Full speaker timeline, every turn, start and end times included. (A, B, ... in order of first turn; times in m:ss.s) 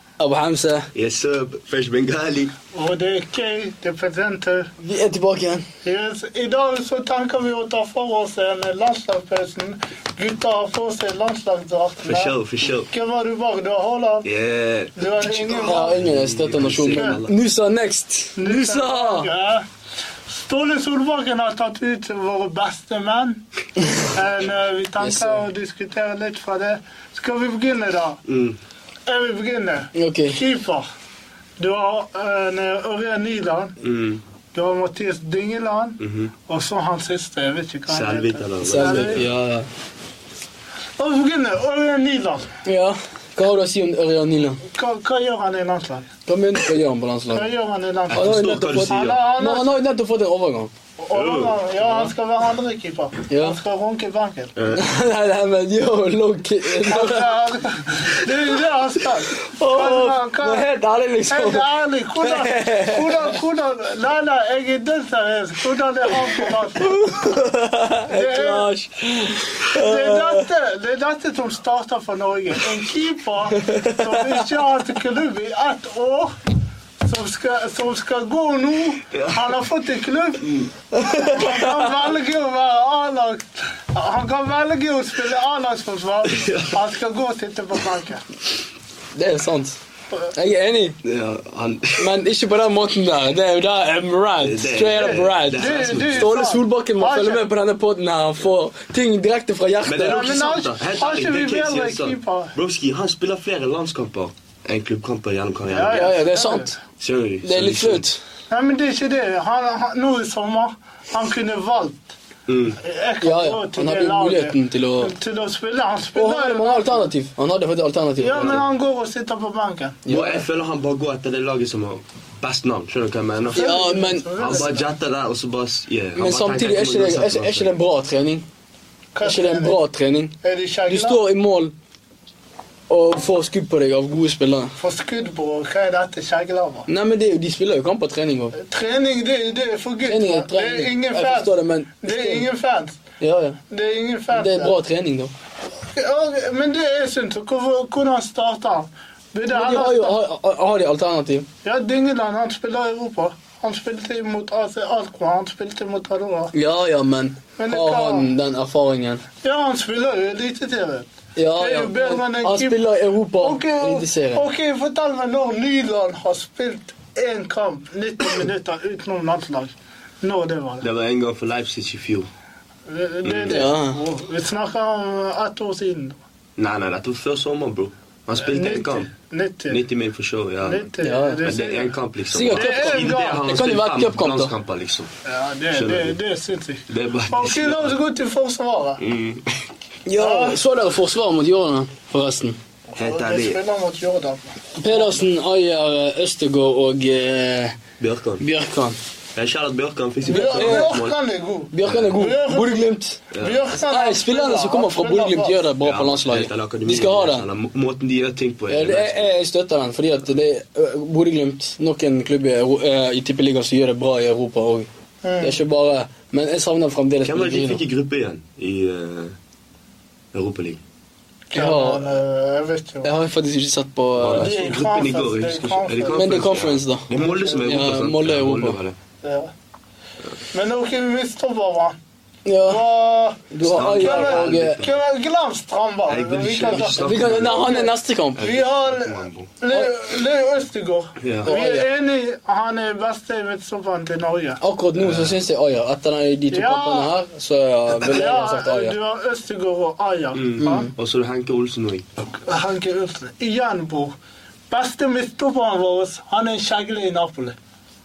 0:00.2-0:00.9 A
0:00.9-0:02.5 B
0:02.7-0:04.7 C
0:04.8-0:05.7 A
0:05.8-0:12.3 C
0:12.0-0:12.9 B
0:12.9-0:14.3 C
0:14.2-0:17.3 B
0:15.0-0:15.9 C
0:15.6-0:19.3 A
0:16.9-0:17.2 C
0:18.4-0:19.6 C
0:20.3-0:28.2 C
0:25.0-0:25.4 A
0:28.2-0:28.6 B
0:29.1-0:30.9 C
0:29.9-0:30.4 A
0:31.6-0:33.8 C
0:33.8-0:34.2 B
0:34.5-0:39.2 C
0:36.0-0:36.3 B
0:37.9-0:39.3 B
0:38.6-0:39.7 A
0:41.0-0:42.5 C
0:42.6-0:44.6 A
0:44.7-0:46.1 C
0:46.3-0:47.5 A
0:47.3-0:48.3 C
0:48.1-0:49.2 B
0:48.1-0:50.7 A
0:48.9-0:49.7 C
0:51.0-0:54.5 C
0:51.1-0:52.1 B
0:53.3-0:53.6 A
0:54.6-0:54.8 B
0:54.7-0:57.3 A
0:56.8-1:00.7 C
0:59.4-1:01.7 A
1:01.3-1:07.0 C
1:02.2-1:03.3 A
1:06.8-1:10.5 A
1:08.1-1:08.7 C
1:09.7-1:16.3 C
1:13.6-1:14.4 A
1:17.0-1:28.2 C
1:19.1-1:19.6 B
1:20.4-1:20.7 B
1:20.9-1:21.7 A
1:26.2-1:26.8 B
1:29.2-1:29.8 A
1:30.3-1:31.0 A
1:31.0-1:32.1 B
1:32.0-1:40.3 A
1:34.4-1:36.3 B
1:34.9-1:37.4 C
1:39.8-1:46.1 B
1:40.0-1:42.5 C
1:45.7-1:46.7 C
1:45.9-1:46.8 A
1:47.0-1:48.0 B
1:47.4-1:48.2 A
1:48.5-1:52.1 C
1:52.5-1:52.8 B
1:52.8-1:57.1 C
1:53.2-1:55.1 A
1:56.1-1:58.6 A
1:58.2-2:00.0 C
2:00.0-2:00.4 A
2:00.1-2:03.7 B
2:03.5-2:04.8 C
2:03.5-2:04.6 A
2:04.4-2:07.7 B
2:06.2-2:08.4 A
2:09.1-2:09.8 C
2:09.2-2:10.3 A
2:10.4-2:11.2 C
2:10.9-2:11.7 A
2:12.9-2:14.7 A
2:14.8-2:16.9 C
2:16.9-2:18.6 A
2:18.5-2:23.0 C
2:20.0-2:22.5 A
2:23.2-2:23.6 A
2:23.7-2:24.8 C
2:24.3-2:25.3 A
2:25.9-2:30.2 C
2:29.5-2:31.5 A
2:31.6-2:36.5 C
2:36.5-2:39.2 A
2:37.6-2:38.3 C
2:39.4-2:42.8 C
2:41.4-2:44.4 A
2:43.4-2:50.8 C
2:50.8-2:52.3 B
2:52.9-2:56.2 C
2:53.2-2:53.7 B
2:53.5-2:54.0 A
2:56.6-2:59.1 B
2:58.4-2:59.8 C
2:59.7-3:00.9 B
3:00.6-3:01.9 C
3:01.0-3:01.5 A
3:01.4-3:05.1 B
3:02.3-3:04.5 A
3:02.5-3:03.4 C
3:05.2-3:09.0 C
3:05.7-3:06.2 B
3:06.9-3:07.9 B
3:09.0-3:09.4 B
3:10.0-3:12.6 A
3:10.2-3:10.6 C
3:12.9-3:15.2 C
3:13.0-3:13.6 B
3:14.8-3:17.8 A
3:18.0-3:18.4 B
3:18.4-3:19.0 A
3:19.3-3:21.2 B
3:20.2-3:25.6 C
3:20.3-3:20.9 A
3:21.7-3:23.2 A
3:21.8-3:22.2 B
3:23.3-3:23.6 B
3:23.9-3:27.4 A
3:25.8-3:29.3 B
3:28.7-3:34.9 A
3:35.2-3:35.6 C
3:35.4-3:37.8 A
3:37.2-3:39.3 B
3:40.3-3:40.8 B
3:41.5-3:43.1 C
3:41.5-3:42.1 A
3:43.0-3:44.5 A
3:44.2-3:49.0 B
3:44.4-3:47.7 C
3:46.1-3:48.8 A
3:49.2-3:49.5 C
3:50.5-3:52.0 C
3:52.4-3:52.8 A
3:52.7-4:04.6 C
3:53.5-3:54.8 A
3:53.6-3:55.0 B
3:56.1-3:57.6 B
3:56.7-3:58.4 A
3:58.4-3:59.5 B
4:01.2-4:01.5 B
4:01.4-4:01.8 A
4:04.6-4:09.0 A
4:05.0-4:05.4 B
4:06.5-4:07.1 C
4:08.0-4:10.9 C
4:10.3-4:12.1 B
4:10.6-4:10.9 A
4:12.4-4:14.1 C
4:14.7-4:17.6 C